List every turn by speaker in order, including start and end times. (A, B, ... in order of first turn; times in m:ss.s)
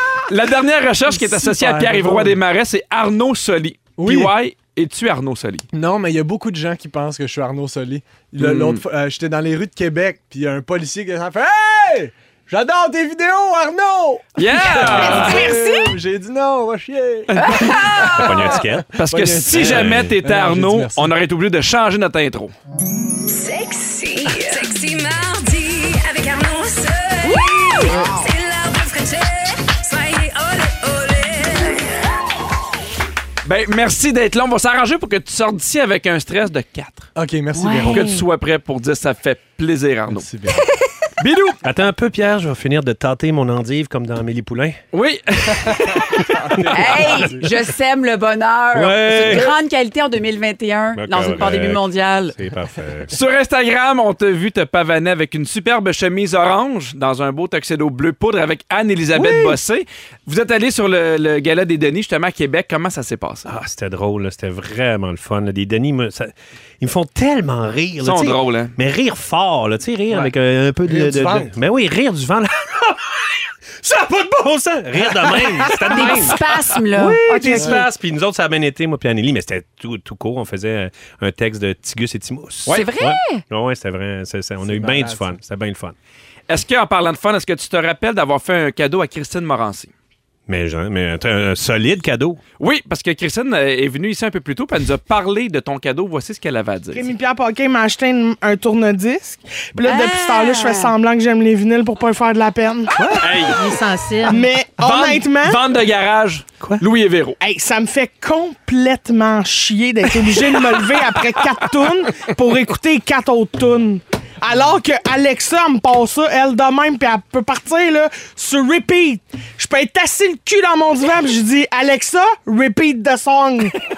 0:00.2-0:05.7 A
0:01.1-0:02.4 B
0:04.0-0:04.3 B
0:05.7-0:21.1 B
0:08.4-0:08.8 A
0:14.4-0:15.5 A
0:14.8-0:16.0 C
0:14.8-0:15.4 D
0:17.3-0:18.2 A
0:17.4-0:18.6 C
0:18.1-0:18.9 D
0:18.9-0:22.5 A
0:19.5-0:20.2 D
0:23.3-0:31.9 E
0:27.2-0:28.0 C
0:33.4-0:37.1 A
0:37.2-0:38.2 B
0:37.5-0:38.2 C
0:37.8-0:40.3 A
0:40.1-0:40.7 B
0:41.2-0:41.6 A
0:41.6-0:44.8 D
0:44.9-0:46.9 A
0:46.3-0:47.5 B
0:46.7-0:52.4 C
0:48.7-0:49.5 D
0:50.9-0:53.2 D
0:53.1-1:03.4 A
1:03.4-1:25.9 D
1:08.0-1:08.7 A
1:10.8-1:11.5 B
1:15.9-1:17.8 C
1:17.5-1:17.8 B
1:22.7-1:23.4 C
1:24.6-1:25.4 B
1:26.5-1:29.9 A
1:30.5-1:32.4 D
1:32.6-1:37.1 A
1:36.9-1:42.9 F
1:39.8-1:40.9 C
1:43.2-1:43.6 A
1:43.4-1:44.5 E
1:44.2-1:45.6 F
1:44.8-1:47.4 A
1:47.4-2:03.8 F